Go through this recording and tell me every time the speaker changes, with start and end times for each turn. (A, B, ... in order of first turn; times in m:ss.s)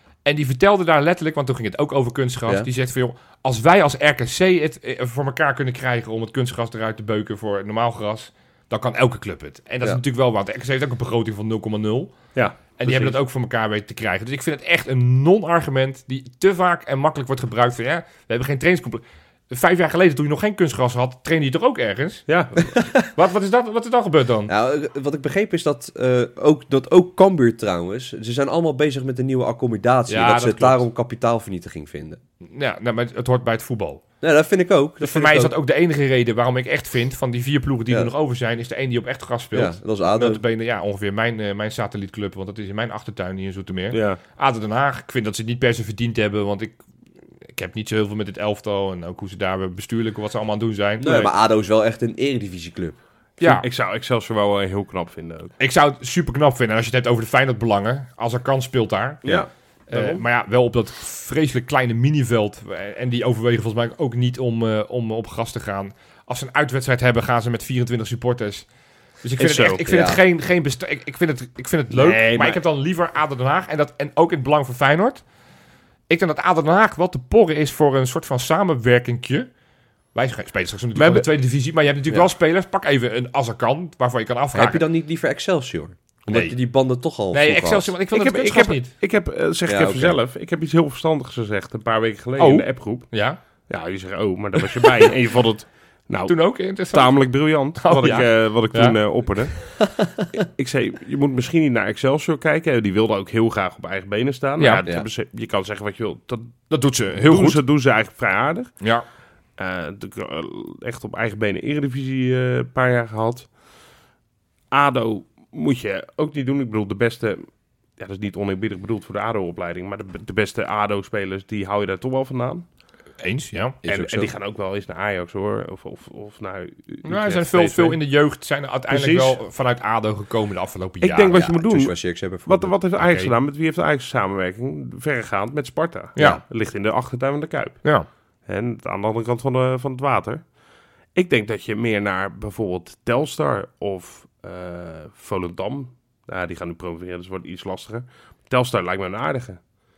0:00.2-0:24.5 A
0:12.4-0:13.2 B
0:22.3-0:22.6 B
0:24.5-0:32.2 C
0:30.1-0:30.8 A
0:32.4-0:34.0 A
0:34.2-0:35.5 C
0:35.0-0:46.8 A
0:39.5-0:40.4 C
0:43.9-0:44.2 B
0:47.5-0:51.2 A
0:51.0-0:53.0 C
0:53.4-0:53.6 A
0:53.4-0:55.5 B
0:55.6-1:08.7 A
0:59.2-1:00.2 B
1:09.2-1:15.2 A
1:09.4-1:09.8 B
1:09.9-1:10.2 C
1:11.9-1:12.6 B
1:16.1-1:19.5 A
1:20.1-1:24.8 A
1:21.0-1:21.3 B
1:24.5-1:27.9 C
1:26.3-1:26.6 A
1:27.3-1:28.9 A
1:28.1-1:39.8 B
1:29.7-1:30.2 C
1:32.4-1:33.4 A
1:36.2-1:39.6 A
1:40.4-1:48.9 B
1:44.6-1:44.9 A
1:46.7-1:47.6 A
1:49.6-1:53.5 B
1:54.7-2:02.6 B
2:03.2-2:03.8 A
2:03.8-2:04.3 C
2:03.8-2:08.0 B
2:07.0-2:11.4 A
2:08.9-2:09.4 B
2:11.0-2:20.5 B
2:11.3-2:12.8 C
2:13.0-2:13.3 A
2:16.2-2:16.4 A
2:16.2-2:16.4 C
2:21.1-2:29.6 B